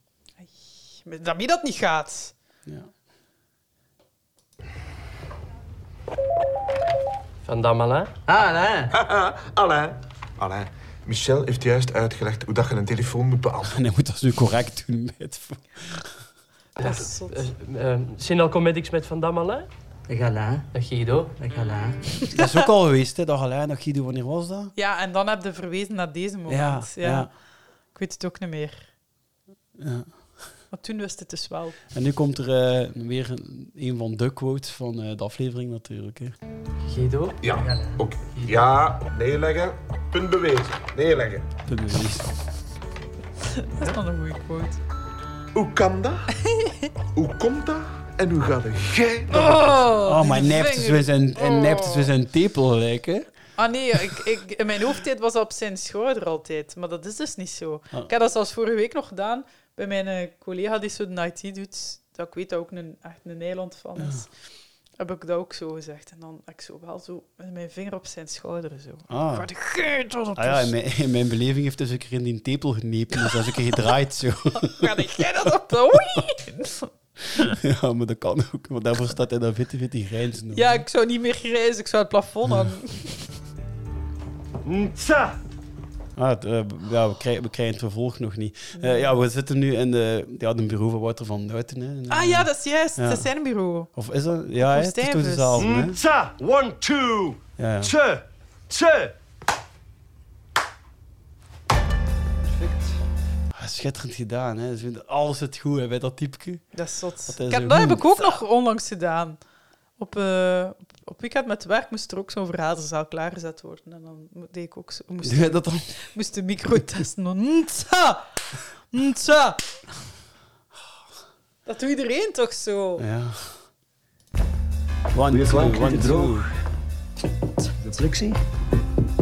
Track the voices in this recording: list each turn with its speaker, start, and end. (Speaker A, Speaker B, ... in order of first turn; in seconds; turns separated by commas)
Speaker A: 0.4-2.3, Speaker B: 7.4-8.1, Speaker C: 8.3-8.9, Speaker D: 8.9-13.7, Speaker E: 13.7-16.1, Speaker A: 16.8-17.4, Speaker B: 16.8-19.7, Speaker C: 20.1-20.7, Speaker B: 20.7-21.3, Speaker C: 21.3-22.0, Speaker A: 22.3-22.7, Speaker E: 22.3-24.7, Speaker A: 24.8-27.3, Speaker E: 26.5-27.3, Speaker A: 27.9-28.9, Speaker E: 29.8-30.1, Speaker A: 30.7-31.8, Speaker E: 31.9-36.4, Speaker B: 36.9-37.4, Speaker D: 37.4-41.5, Speaker C: 37.7-38.0, Speaker E: 41.7-42.3, Speaker A: 43.5-44.8, Speaker D: 45.5-46.2, Speaker A: 46.5-46.8, Speaker D: 47.1-49.7, Speaker A: 49.3-52.1, Speaker E: 50.0-53.3, Speaker A: 53.6-64.3, Speaker E: 64.0-64.2, Speaker A: 65.0-70.7, Speaker E: 69.1-69.5, Speaker E: 70.4-75.2, Speaker A: 74.6-76.9, Speaker E: 77.3-80.8, Speaker A: 80.5-83.3, Speaker F: 84.6-85.4, Speaker E: 86.2-93.3, Speaker A: 88.8-89.1, Speaker A: 92.1-93.9, Speaker E: 93.9-96.0, Speaker A: 94.6-95.6, Speaker F: 95.6-99.2, Speaker E: 97.6-98.0, Speaker E: 103.5-106.6, Speaker A: 106.7-109.4, Speaker E: 107.3-108.4, Speaker A: 110.0-118.3, Speaker E: 115.2-115.9, Speaker A: 118.9-119.6, Speaker A: 121.7-123.0, Speaker E: 123.0-123.6, Speaker E: 125.1-126.5, Speaker F: 125.3-126.5, Speaker F: 127.8-128.4